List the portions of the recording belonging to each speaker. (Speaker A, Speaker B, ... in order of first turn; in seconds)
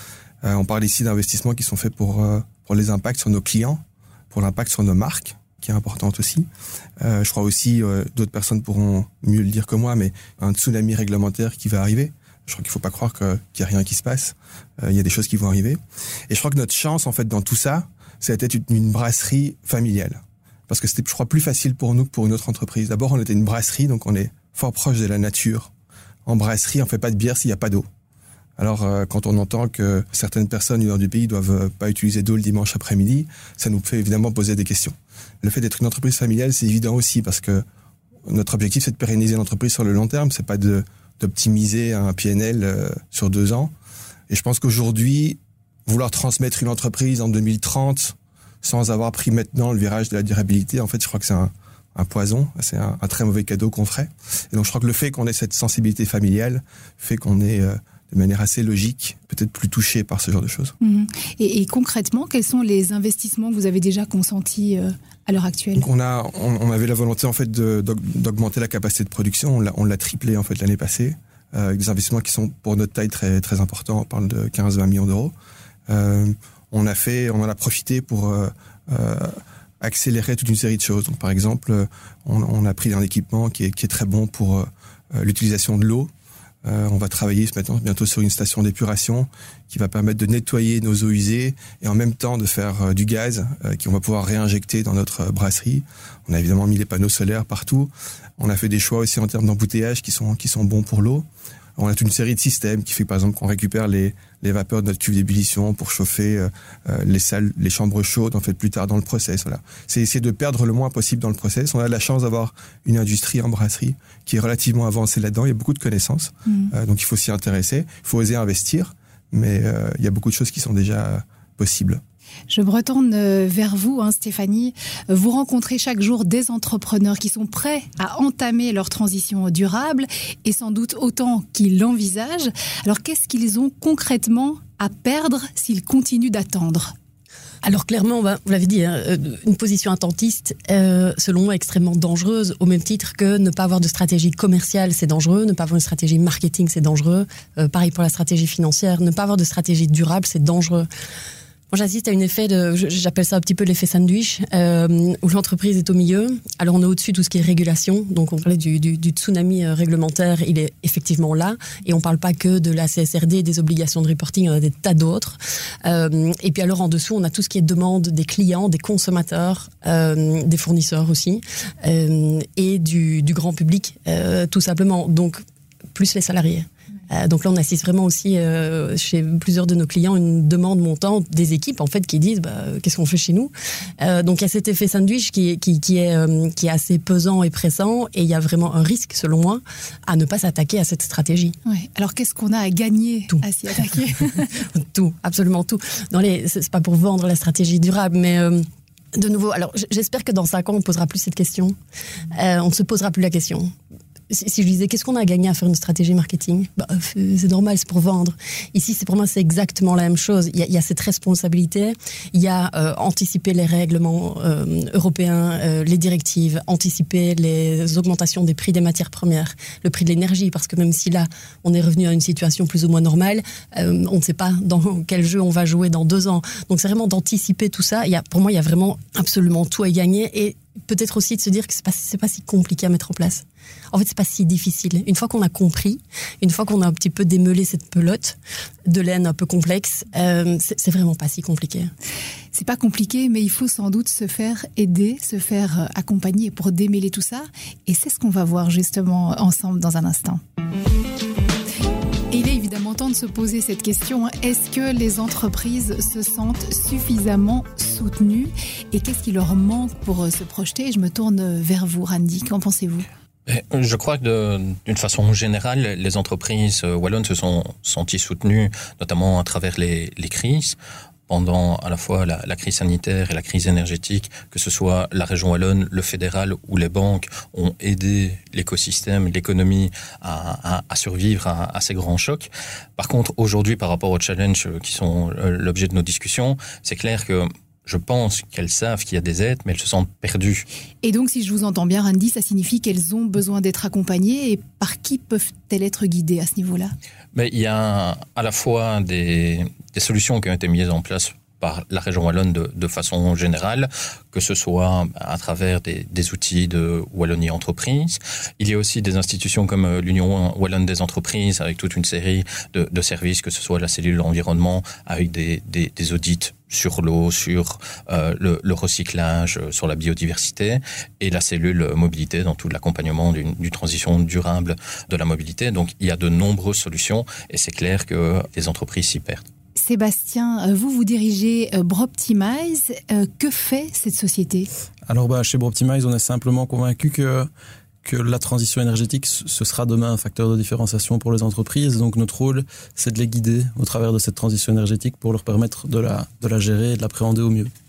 Speaker A: 0.4-6.5, 7.0-25.7, 26.3-27.9, 28.6-37.6, 38.3-43.7, 44.3-60.7, 65.8-75.3, 75.9-86.1, 86.7-122.0
Speaker B: 60.8-65.9, 116.5-116.7, 122.5-136.9, 191.7-194.6, 242.5-250.4, 252.3-263.1, 291.0-296.9, 329.8-334.7
Speaker C: 137.6-150.9, 151.7-175.4, 175.9-191.6, 194.7-201.8, 202.3-203.7, 204.3-241.9
Speaker D: 263.5-270.8, 271.3-290.7, 297.3-329.4
Speaker E: 335.1-337.5, 338.0-347.7